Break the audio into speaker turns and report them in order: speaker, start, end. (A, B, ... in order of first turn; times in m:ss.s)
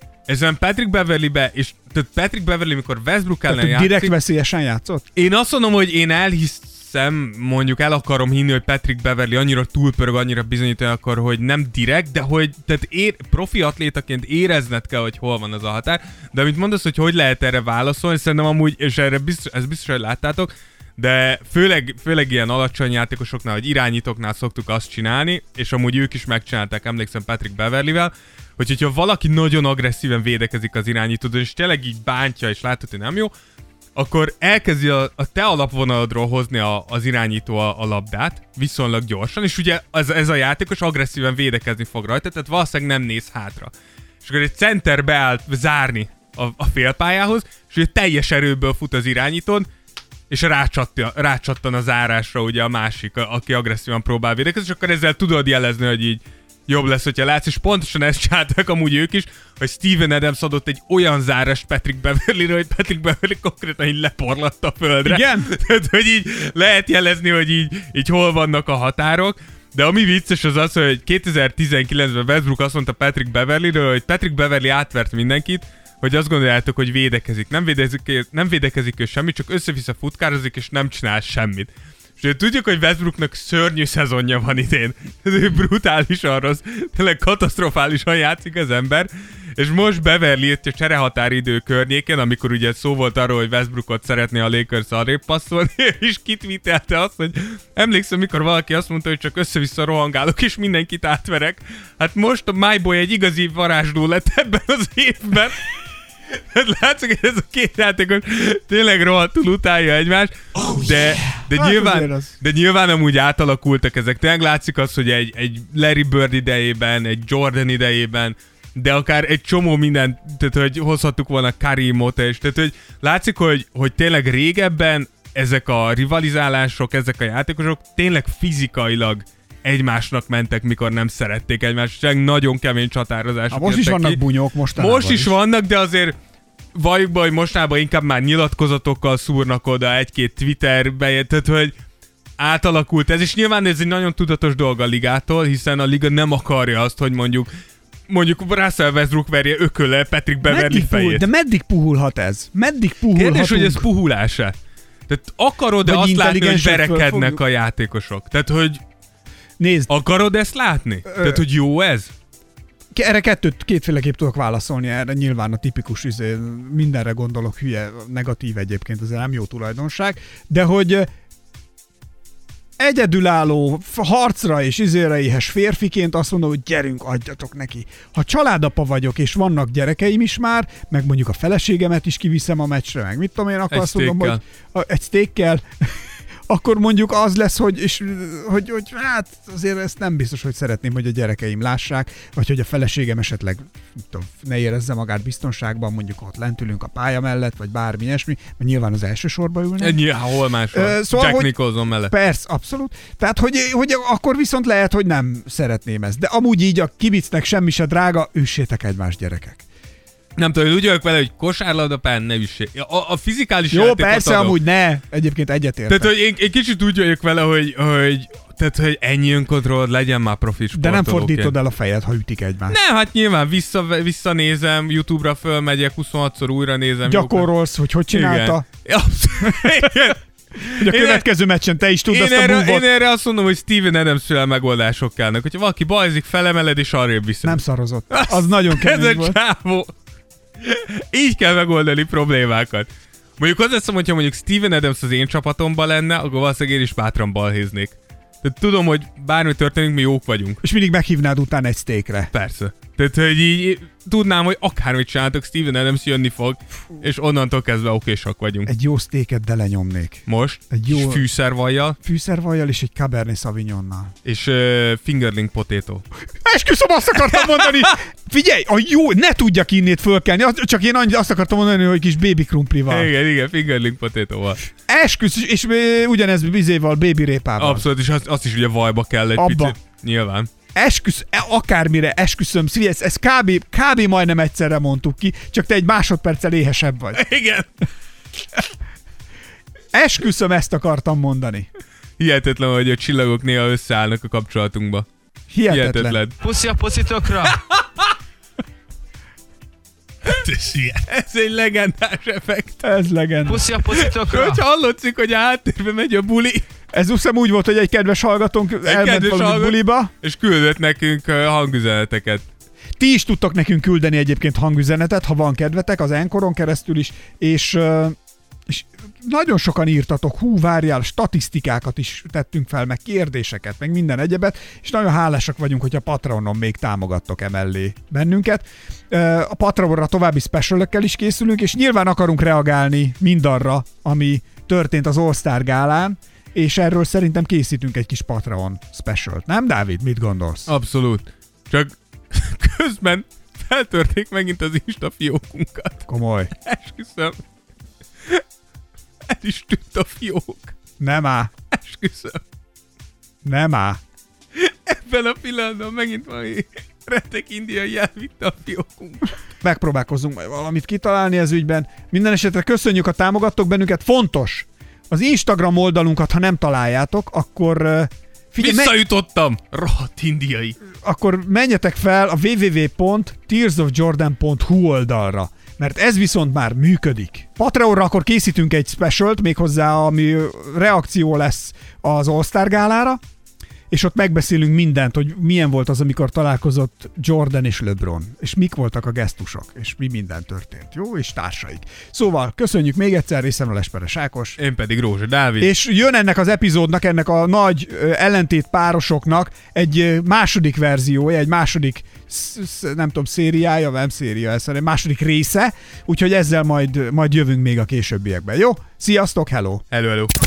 0:00.3-0:04.1 A
0:03.5-0:05.1 B
0:05.2-0:33.3 A
0:34.0-0:43.7 A
0:44.2-0:49.7 A
0:50.3-1:45.6 A
1:05.0-1:05.5 B
1:46.5-2:14.2 A
1:51.4-1:52.4 B
2:13.5-2:15.3 B
2:14.8-2:16.2 A
2:16.8-2:21.8 A
2:22.4-2:27.5 A
2:28.1-2:31.3 A
2:30.4-2:33.9 B
2:33.1-2:34.6 A
2:35.1-2:38.8 A
2:35.8-2:37.4 B
2:39.6-2:39.9 B
2:39.9-2:42.1 A
2:41.1-2:41.4 B
2:42.9-2:51.1 B
2:52.8-3:20.0 B
3:03.7-3:04.4 A
3:19.8-3:22.1 A
3:20.7-3:29.6 B
3:30.4-3:34.6 A
3:33.7-3:36.1 B
3:35.9-3:41.6 A
3:40.7-3:42.8 B
3:42.7-3:47.5 A
3:47.1-3:48.7 B
3:48.1-3:51.3 A
3:49.4-3:49.9 B
3:50.8-3:52.9 B
3:52.1-3:57.6 A
3:57.4-3:59.4 B
3:58.1-3:59.9 A
4:00.6-4:10.6 A
4:10.6-4:12.3 B
4:12.3-4:18.7 A
4:18.7-4:21.2 B
4:20.3-4:22.0 A
4:22.0-4:24.1 B
4:24.2-4:26.0 A
4:26.4-4:33.1 B
4:27.3-4:27.7 A
4:32.9-4:34.6 A
4:34.9-4:37.9 B
4:37.6-4:40.5 A
4:39.4-4:39.8 B
4:40.8-4:47.2 B
4:47.1-4:47.7 A
4:49.9-4:51.7 B
4:52.2-4:55.1 A
4:55.5-4:56.2 B
4:55.7-4:56.4 A
4:56.4-4:57.6 C
4:57.7-4:58.1 A
5:00.3-5:02.8 A
5:02.8-5:03.7 B
5:03.5-5:04.6 C
5:03.9-5:06.6 A
5:06.9-5:10.1 B
5:08.8-5:12.5 A
5:13.0-5:40.7 B
5:40.7-5:46.1 A
5:46.1-5:46.5 B
5:46.6-5:47.4 A
5:49.3-5:50.8 A
5:51.0-5:51.5 B
5:51.7-5:52.4 A
5:53.4-5:54.0 B
5:54.6-5:59.3 A
5:59.6-6:09.0 B
6:08.6-6:10.8 A
6:10.9-6:23.2 B
6:23.9-6:34.6 B
6:34.6-6:35.7 A
6:35.6-6:49.8 B
6:49.9-6:50.3 A